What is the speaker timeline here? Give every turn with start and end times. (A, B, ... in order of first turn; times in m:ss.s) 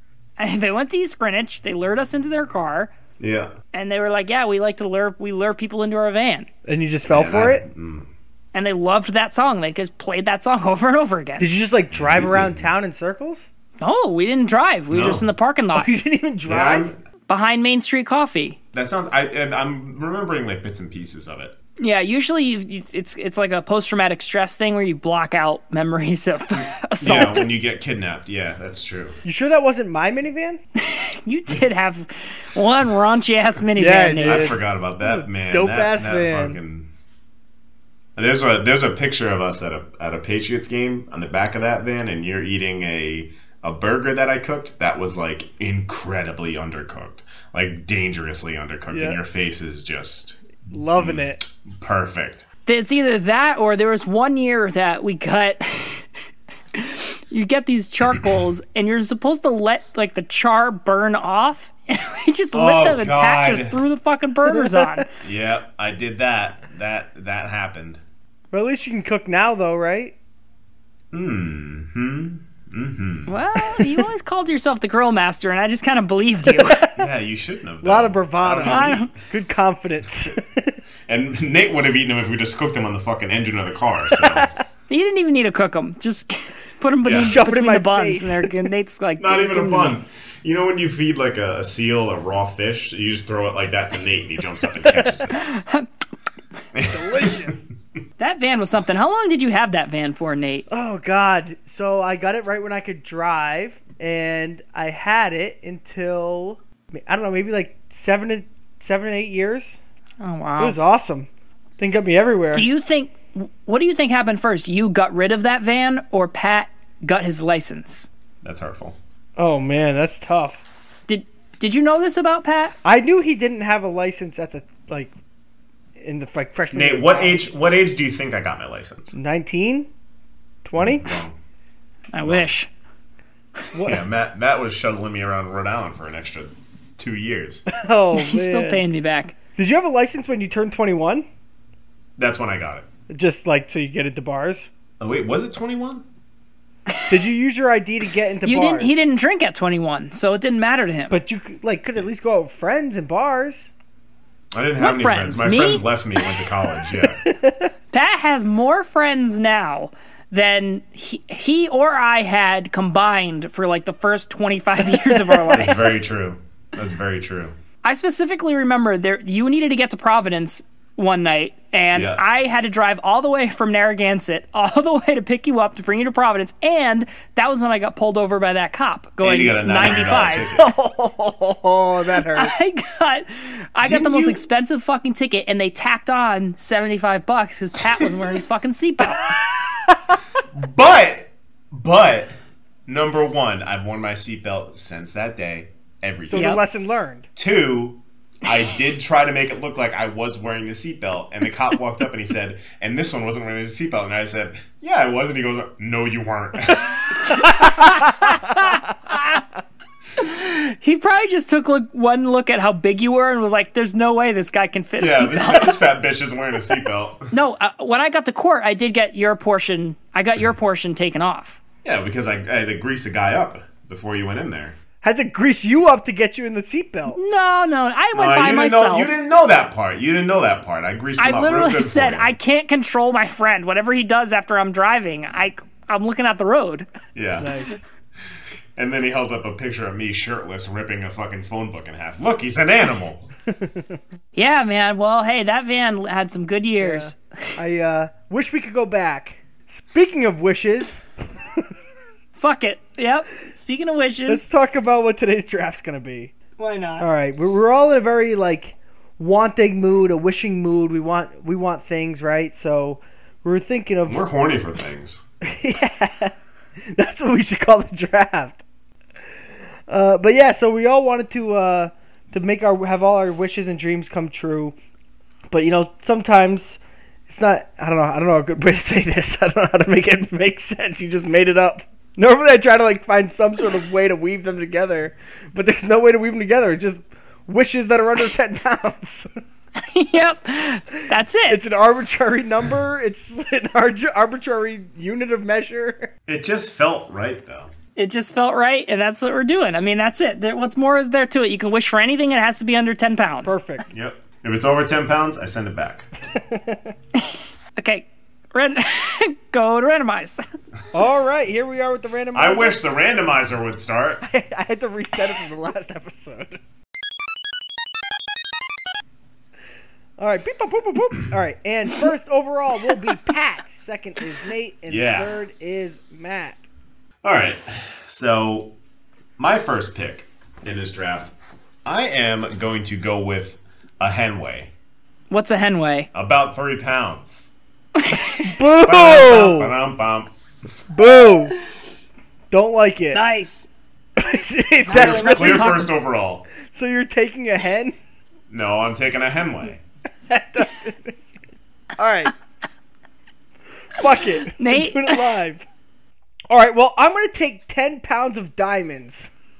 0:00.4-0:02.9 A
0:03.2-0:03.5 B
0:03.7-0:06.5 A
0:06.6-0:07.6 C
0:07.1-0:08.1 B
0:08.5-0:11.5 A
0:11.4-0:13.5 C
0:11.9-0:12.6 B
0:13.8-0:15.9 A
0:14.9-0:15.2 B
0:15.7-0:16.9 C
0:16.4-0:17.0 B
0:17.3-0:18.6 A
0:18.7-0:21.5 B
0:21.8-0:27.5 A
0:27.0-0:29.2 B
0:29.2-0:30.6 C
0:30.8-0:34.5 A
0:33.8-0:36.6 C
0:34.2-0:36.9 B
0:38.2-0:52.4 B
0:48.9-0:49.2 C
0:50.7-0:51.4 C
0:52.6-0:56.1 A
0:56.7-1:05.1 A
1:02.5-1:03.8 B
1:04.5-1:05.0 C
1:05.2-1:08.0 B
1:08.5-1:10.1 C
1:11.1-1:13.3 B
1:13.3-1:16.8 A
1:16.4-1:17.1 C
1:17.0-1:19.1 B
1:17.8-1:20.8 C
1:18.6-1:19.1 A
1:21.1-1:24.5 B
1:24.1-1:24.5 C
1:24.9-1:30.0 A
1:27.0-1:27.4 B
1:27.2-1:28.7 C
1:29.2-1:35.4 B
1:35.3-1:35.9 A
1:36.7-1:37.0 B
1:36.9-1:37.6 C
1:38.2-1:40.6 A
1:40.7-1:49.8 C
1:50.2-1:50.8 A
1:50.6-1:52.7 C
1:52.5-1:58.1 A
1:58.4-1:59.0 B
1:59.4-2:00.6 C
2:01.1-2:02.7 A
2:02.8-2:05.1 C
2:06.0-2:07.4 C
2:06.7-2:09.2 B
2:09.1-2:09.9 C
2:10.6-2:11.1 C
2:10.8-2:11.3 B
2:12.1-2:12.7 A
2:13.7-2:14.0 C
2:13.8-2:17.6 B
2:17.7-2:18.8 C
2:18.1-2:19.3 A
2:19.6-2:21.2 C
2:22.2-2:22.8 B
2:23.1-2:24.7 C
2:25.0-2:26.0 B
2:27.1-2:29.0 C
2:28.4-2:31.2 A
2:31.1-2:33.7 C
2:34.5-2:37.2 B
2:34.8-2:35.8 A
2:37.2-2:37.7 C
2:37.9-2:45.9 A
2:44.9-2:45.7 C
2:45.5-2:47.5 B
2:47.8-3:00.5 A
2:51.9-2:52.2 B
2:59.2-3:00.7 B
3:00.4-3:02.5 C
3:02.3-3:09.4 A
3:03.8-3:04.4 B
3:09.6-3:10.0 C
3:10.5-3:12.3 B
3:12.9-3:16.6 B
3:16.3-3:17.3 C
3:16.3-3:16.6 A
3:17.4-3:27.4 B
3:27.2-3:29.4 A
3:30.2-3:35.8 A
3:35.0-3:37.3 B
3:37.3-3:41.6 A
3:41.8-3:44.8 B
3:45.0-3:47.2 C
3:47.1-3:49.1 A
3:48.1-3:52.3 B
3:51.2-3:56.9 A
3:57.1-3:57.5 B
3:57.4-3:57.8 C
3:58.8-4:03.3 B
4:04.3-4:07.5 A
4:06.8-4:11.0 C
4:12.4-4:14.5 A
4:14.3-4:16.3 C
4:16.6-4:17.1 A
4:17.0-4:24.2 C
4:24.1-4:25.2 B
4:25.4-4:28.6 C
4:29.9-4:34.7 C
4:35.5-4:49.3 C
4:49.8-4:51.6 A
4:51.5-4:56.1 C
4:56.3-4:57.7 B
4:58.0-5:03.6 A
5:03.4-5:03.8 C
5:03.9-5:06.1 B
5:06.3-5:06.9 C
5:07.2-5:10.4 A
5:10.9-5:12.8 C
5:12.3-5:14.2 B
5:14.2-5:16.6 C
5:20.2-5:26.6 C
5:24.9-5:25.3 B
5:27.2-5:28.7 B
5:29.4-5:31.3 B
5:31.8-5:34.7 B
5:35.3-5:36.1 A
5:36.1-5:37.5 B
5:38.0-5:38.6 A
5:38.4-5:39.7 C
5:38.8-5:40.3 B
5:40.9-5:41.5 C
5:42.5-5:43.2 C
5:43.1-5:43.7 A
5:44.2-5:45.9 C
5:44.8-5:45.9 A
5:44.9-5:46.4 B
5:46.6-5:48.0 C
5:48.5-5:49.8 B
5:50.3-5:51.2 C
5:52.0-5:52.3 C
5:54.0-5:55.6 C
5:54.6-5:55.2 A
5:56.5-5:59.3 C